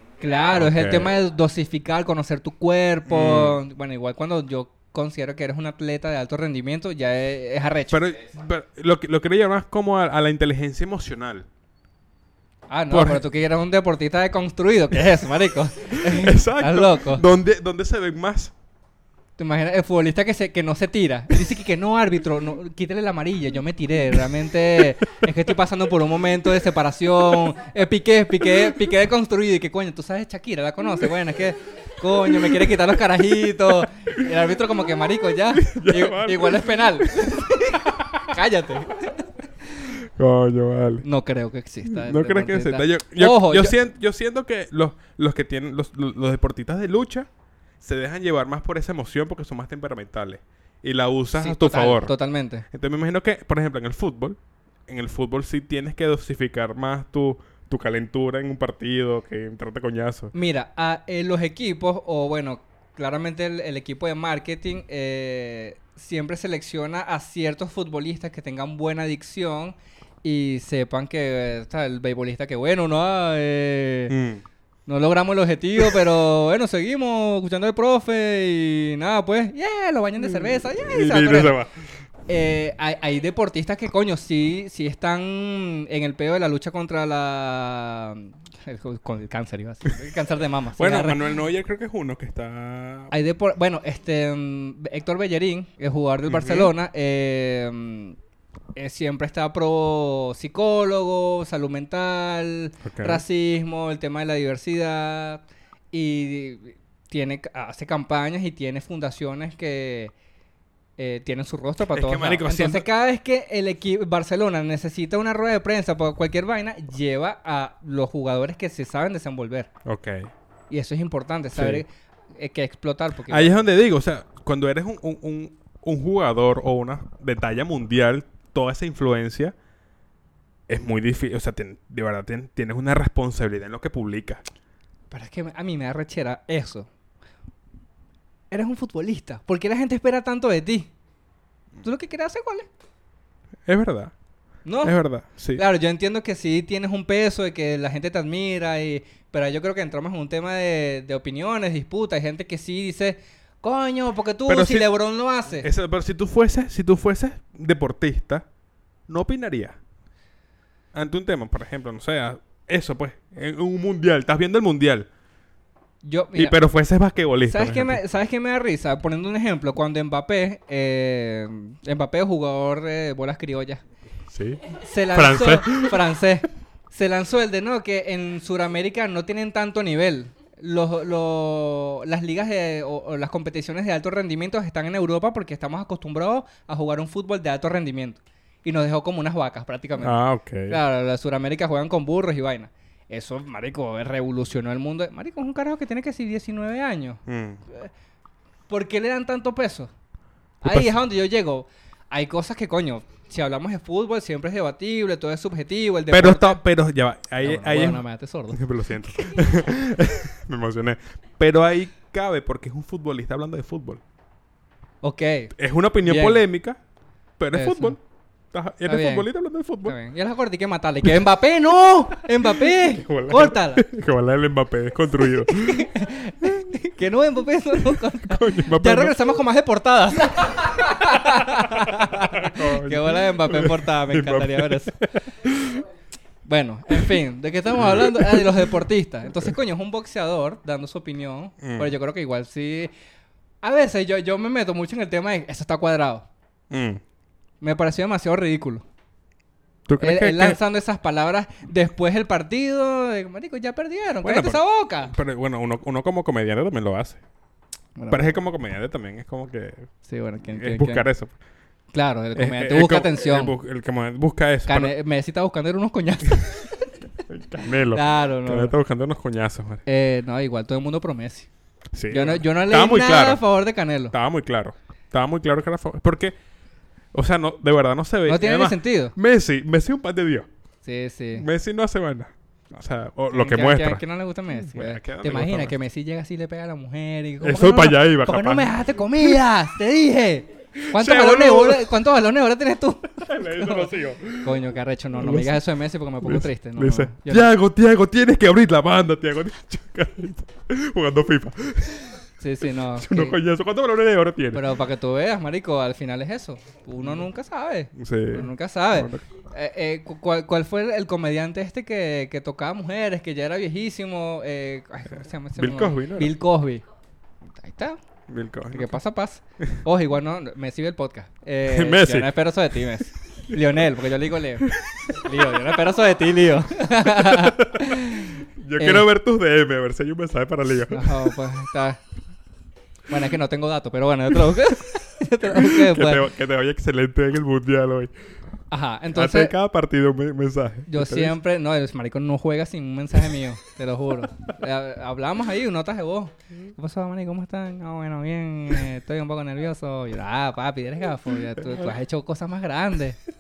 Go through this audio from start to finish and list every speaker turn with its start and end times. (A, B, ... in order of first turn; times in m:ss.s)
0:00.2-0:08.1 A
0:00.5-0:01.1 B
0:03.1-0:03.6 B
0:07.9-0:11.5 B
0:12.7-0:17.2 A
0:12.9-0:13.2 B
0:15.9-0:18.5 B
0:19.4-0:40.0 A
0:28.4-0:28.8 B
0:32.4-0:32.8 B
0:33.5-0:34.3 B
0:35.4-0:38.4 B
0:40.0-0:41.1 B
0:41.0-0:43.8 A
0:41.8-0:47.3 B
0:47.8-0:52.1 B
0:51.3-0:52.7 A
0:52.7-1:00.3 B
1:00.3-1:14.1 A
1:14.1-1:14.4 B
1:14.9-1:21.6 A
1:20.2-1:21.9 B
1:22.3-1:31.2 A
1:30.8-1:33.1 B
1:33.1-1:38.2 A
1:36.3-1:36.7 B
1:38.8-1:50.1 A
1:42.8-1:43.2 B
1:51.0-1:59.7 A
1:51.9-1:52.8 B
1:59.8-2:00.3 B
2:00.7-2:03.6 A
2:01.6-2:01.8 B
2:03.3-2:09.6 B
2:10.7-2:14.4 B
2:15.1-2:16.9 A
2:18.5-2:20.9 A
2:21.8-2:22.7 A
2:23.7-2:24.1 B
2:24.6-2:24.9 A
2:24.8-2:25.6 B
2:25.5-2:35.7 A
2:34.5-2:34.9 B
2:35.5-2:38.4 B
2:39.1-2:39.8 B
2:40.9-2:45.1 B
2:46.0-2:46.6 A
2:46.3-2:48.0 B
2:47.5-2:53.8 A
2:54.3-2:56.0 B
2:54.7-3:17.9 A
3:10.0-3:10.8 B
3:17.2-3:17.6 B
3:18.7-3:19.9 A
3:20.6-3:26.6 A
3:20.6-3:21.0 B
3:26.1-3:34.0 B
3:27.4-3:28.6 A
3:35.0-3:35.5 A
3:35.6-3:36.8 B
3:36.0-3:36.4 A
3:37.4-3:38.0 B
3:37.5-3:38.0 A
3:38.5-3:40.0 B
3:38.8-3:39.3 A
3:39.8-3:43.8 A
3:42.4-3:46.7 B
3:45.5-3:54.9 A
3:47.7-3:49.3 B
3:51.0-3:55.8 B
3:56.4-4:02.9 A
3:56.9-3:57.2 B
3:57.7-3:58.8 B
4:01.6-4:01.9 B
4:03.6-4:06.2 A
4:06.7-4:07.0 B
4:07.6-4:08.8 A
4:09.9-4:10.6 B
4:10.0-4:15.1 A
4:14.2-4:17.2 B
4:18.0-4:18.4 A
4:18.1-4:19.9 B
4:20.0-4:21.1 A
4:20.5-4:21.3 B
4:21.9-4:23.6 A
4:22.3-4:24.9 B
4:24.7-4:27.0 A
4:27.3-4:29.8 B
4:27.9-4:28.7 A
4:29.8-4:31.5 A
4:31.9-4:33.4 B
4:32.1-4:34.1 A
4:34.1-4:36.4 B
4:37.1-4:40.5 B
4:38.2-4:39.2 A
4:40.8-4:41.5 A
4:41.3-4:45.7 B
4:43.3-4:53.9 A
4:47.4-4:49.4 B
4:50.8-4:51.9 B
4:53.2-4:54.6 B
4:54.4-4:57.5 A
4:55.2-4:55.6 B
4:56.2-5:02.2 B
5:02.4-5:03.4 A
5:02.8-5:04.7 B
5:04.5-5:16.8 A
5:07.0-5:07.2 B
5:07.9-5:09.3 B
5:15.6-5:16.4 B
5:17.5-5:18.0 A
5:18.3-5:19.0 B
5:18.7-5:29.1 A
5:21.6-5:22.8 B
5:24.6-5:25.6 B
5:27.0-5:31.4 B
5:30.9-5:32.0 A
5:33.1-5:36.2 A
5:35.4-5:38.1 B
5:38.7-5:39.5 A
5:39.1-5:41.4 B
5:40.9-5:53.2 A
5:51.6-5:51.9 B